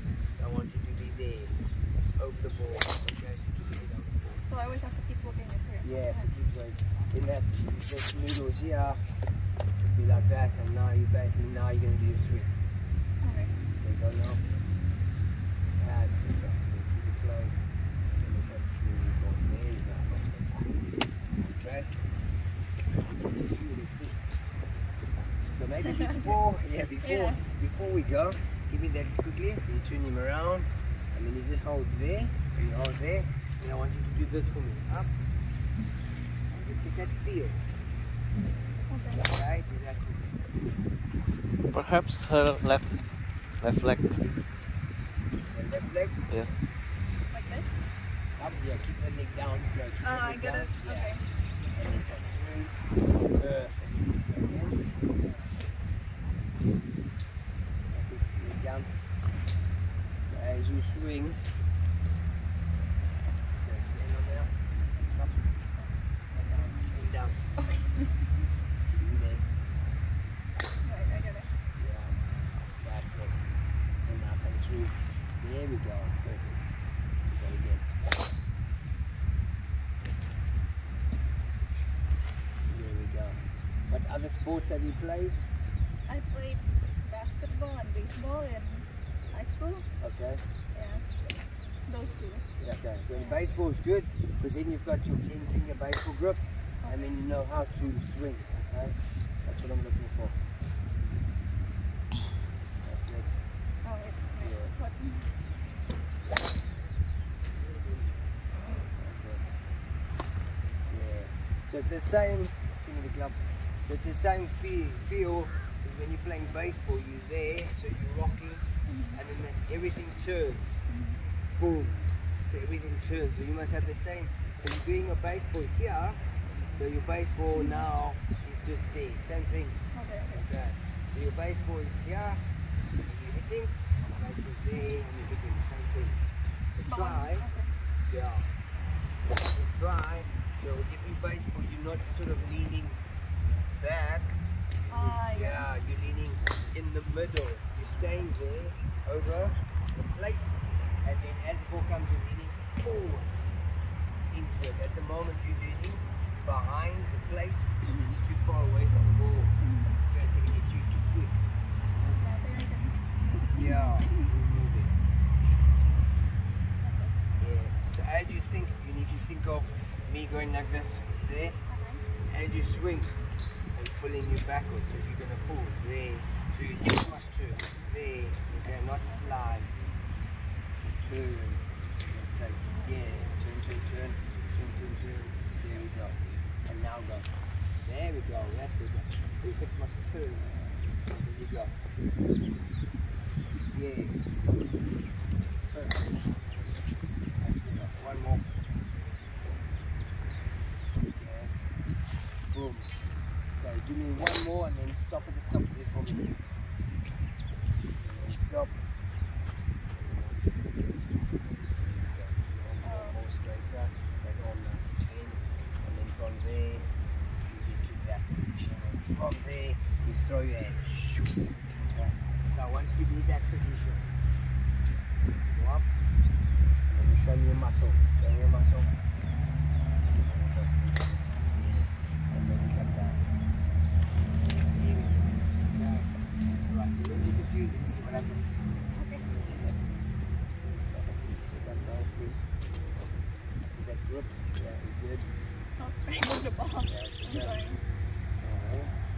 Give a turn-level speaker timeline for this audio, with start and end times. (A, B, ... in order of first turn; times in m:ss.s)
0:00.4-0:01.6 A
0:02.2-0:04.4 A
0:04.4-0:06.3 B
0:05.8-0:09.0 A
0:09.8-0:12.5 A
0:13.2-0:13.5 B
0:13.7-0:14.4 A
0:15.8-0:17.7 A
0:18.2-0:20.7 A
0:21.4-0:21.9 A
0:22.9-0:24.2 A
0:25.2-0:35.1 A
0:27.0-0:27.4 B
0:36.5-0:37.6 A
0:38.9-0:39.2 B
0:39.2-0:40.4 A
0:41.6-0:43.1 C
0:43.6-0:44.3 C
0:45.5-0:46.3 A
0:47.3-0:47.8 B
0:48.4-0:51.2 A
0:50.0-0:51.2 B
0:51.7-0:54.8 A
0:57.9-0:58.9 A
1:00.2-1:01.4 A
1:03.4-1:05.5 A
1:06.3-1:07.4 A
1:08.9-1:09.5 A
1:10.8-1:11.5 B
1:11.7-1:13.4 A
1:14.0-1:16.7 A
1:17.3-1:17.9 A
1:22.7-1:25.4 A
1:26.1-1:29.8 B
1:30.0-1:30.4 A
1:30.7-1:31.0 B
1:31.8-1:32.4 B
1:32.6-1:40.4 A
1:42.8-1:43.4 A
1:43.8-1:45.3 B
1:44.4-1:44.7 A
1:48.9-1:49.6 A
1:50.9-2:00.7 A
1:58.9-1:59.2 B
2:00.9-2:01.2 B
2:01.6-2:06.2 A
2:06.8-2:12.4 A
2:07.6-2:07.8 B
2:09.9-2:10.4 B
2:13.0-2:16.2 A
2:16.8-2:17.5 A
2:16.8-2:17.7 B
2:18.1-2:18.5 A
2:19.3-2:23.0 A
2:23.8-2:24.4 A
2:24.9-2:25.7 B
2:24.9-2:33.4 A
2:34.3-2:39.5 A
2:39.6-2:39.9 B
2:40.1-2:42.2 A
2:42.2-2:44.2 B
2:43.5-2:44.9 A
2:46.8-2:47.2 B
2:47.4-2:51.6 A
2:51.7-2:52.0 B
2:52.3-2:53.2 A
2:53.7-2:59.7 A
3:00.8-3:11.8 A
3:13.7-3:14.4 A
3:15.7-3:16.3 A
3:17.4-3:18.4 A
3:21.1-3:21.7 A
3:22.5-3:23.0 A
3:23.6-3:26.4 A
3:28.0-3:28.8 A
3:29.9-3:30.6 A
3:31.7-3:36.9 A
3:32.8-3:33.2 B
3:37.4-3:44.1 A
3:45.5-3:45.9 A
3:46.9-3:49.0 A
3:50.0-3:53.2 A
3:54.6-3:56.1 A
3:56.7-3:58.6 A
3:58.9-3:59.2 B
3:59.5-3:59.8 A
4:00.8-4:02.4 A
4:03.7-4:05.3 A
4:05.8-4:07.8 B
4:06.8-4:07.6 A
4:08.4-4:08.9 A